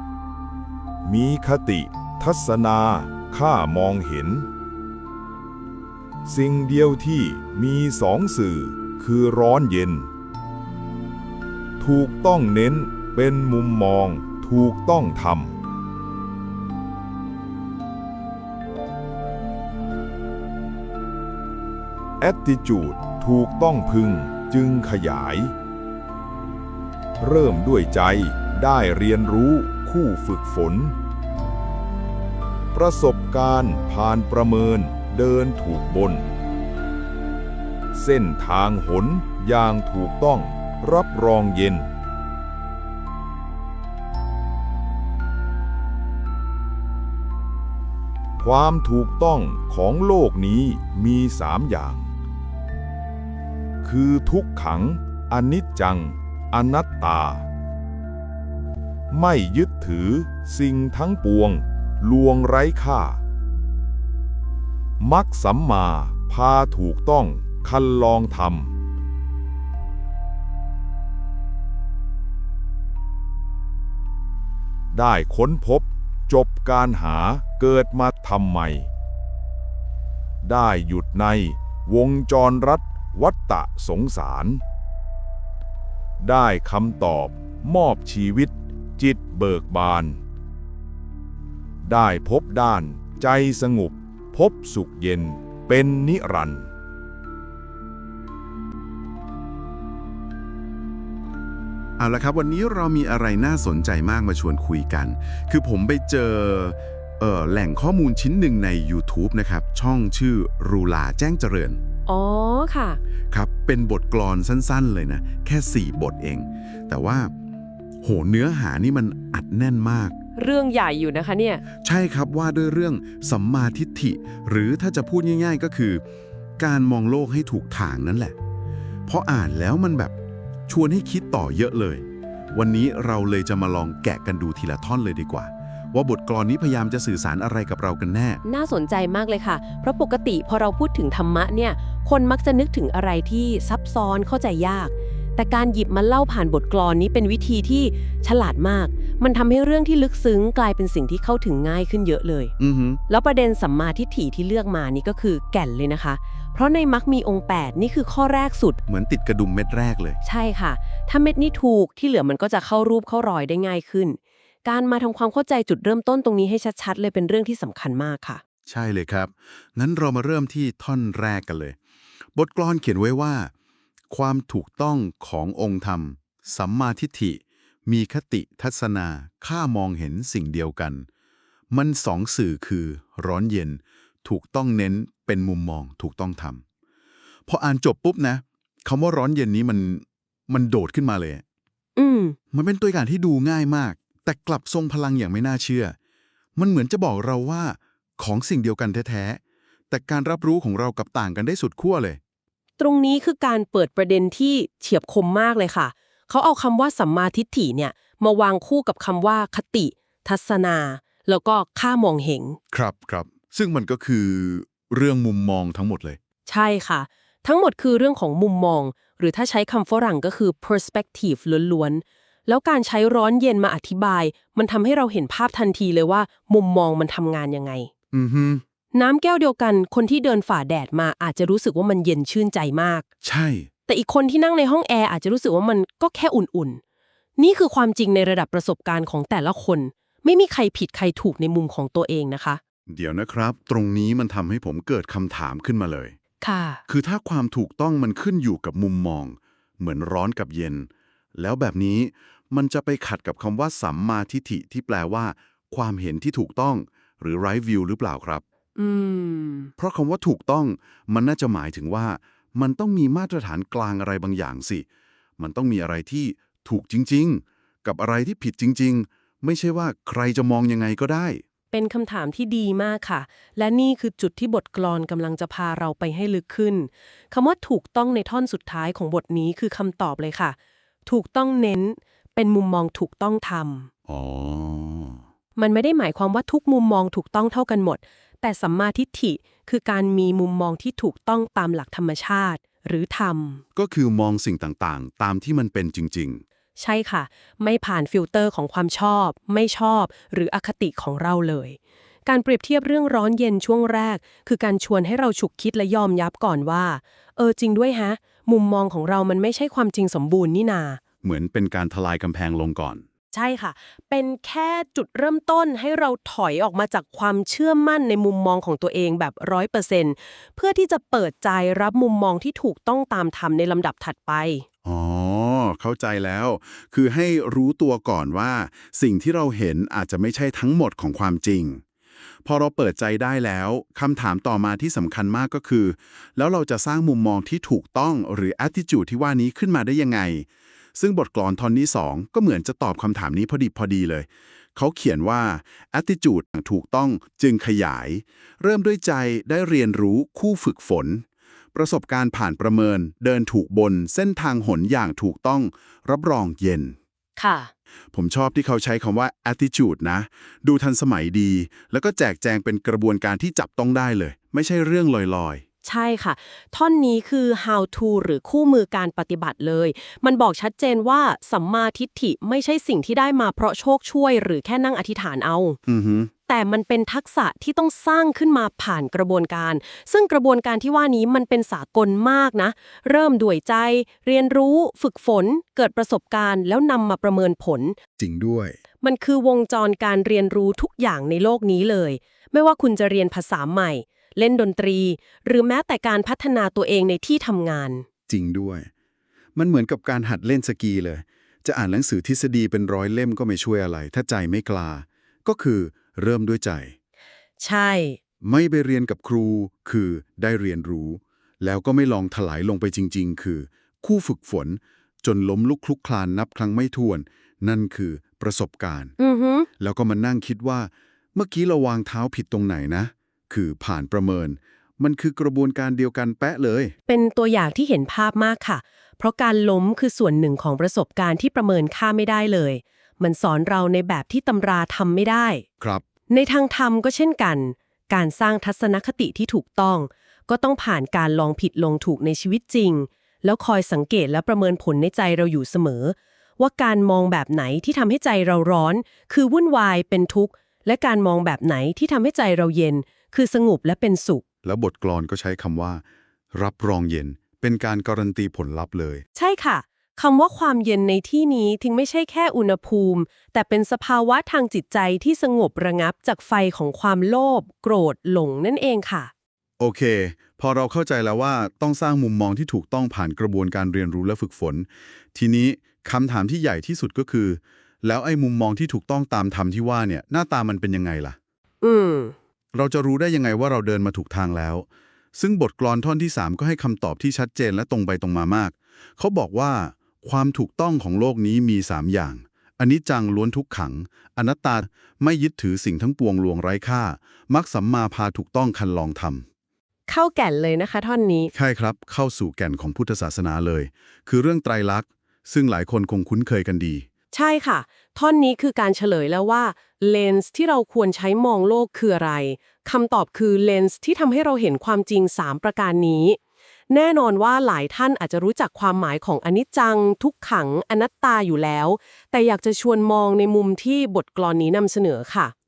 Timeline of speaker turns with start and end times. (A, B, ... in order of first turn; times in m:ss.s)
0:01.0-0:04.5 A
0:06.2-0:10.1 A
0:11.8-0:15.6 A
0:22.2-0:25.5 A
0:27.2-0:30.9 A
0:32.7-0:36.3 A
0:37.9-0:41.9 A
0:48.4-0:52.1 A
0:53.8-0:57.4 A
0:59.1-1:03.2 A
1:05.0-1:08.7 A
1:14.9-1:18.9 A
1:20.4-1:24.6 A
1:26.2-1:30.2 A
1:31.8-1:36.7 A
1:42.0-1:51.8 B
1:52.1-1:53.0 C
1:53.3-1:57.3 B
1:58.0-2:00.2 B
2:00.4-2:01.6 C
2:01.8-2:06.0 B
2:06.6-2:08.4 B
2:09.1-2:10.2 B
2:10.7-2:18.4 B
2:18.4-2:32.5 C
2:32.6-2:33.0 B
2:33.1-2:38.8 C
2:38.9-2:40.2 B
2:40.2-2:48.4 C
2:48.7-2:51.8 B
2:52.3-2:53.5 B
2:54.1-3:01.1 B
3:01.7-3:06.6 B
3:07.5-3:11.4 B
3:12.0-3:12.4 C
3:12.5-3:16.0 B
3:16.6-3:22.2 B
3:22.8-3:32.6 C
3:32.7-3:36.2 B
3:36.5-3:47.9 C
3:48.1-3:48.6 B
3:48.9-3:53.0 C
3:53.2-3:53.7 B
3:53.9-3:56.8 C
3:57.4-4:02.6 C
4:02.9-4:06.2 B
4:06.4-4:06.8 C
4:06.9-4:18.4 B
4:18.8-4:19.7 C
4:19.8-4:24.9 B
4:25.4-4:31.4 B
4:31.7-4:43.9 C
4:44.1-4:45.2 B
4:45.6-4:53.6 C
4:53.8-4:56.4 B
4:56.8-5:11.0 C
5:11.2-5:13.0 B
5:13.3-5:24.6 C
5:24.8-5:31.8 B
5:32.4-5:57.0 B
5:57.4-5:57.7 C
5:58.1-6:05.6 B
6:05.8-6:15.8 C
6:15.9-6:16.3 B
6:16.5-6:28.0 C
6:28.2-6:28.8 B
6:29.0-6:38.0 C
6:38.3-6:38.9 B
6:39.6-6:47.0 B
6:47.6-6:48.2 C
6:48.4-6:59.1 B
6:59.2-6:59.7 C
6:59.8-7:06.9 B
7:07.1-7:15.6 C
7:15.8-7:16.1 B
7:16.3-7:34.4 C
7:34.6-7:39.2 B
7:39.4-7:49.3 C
7:49.8-8:01.4 B
8:01.8-8:02.4 C
8:02.7-8:19.5 B
8:20.1-8:21.5 C
8:21.5-8:27.1 B
8:27.3-8:36.4 C
8:36.9-8:45.5 C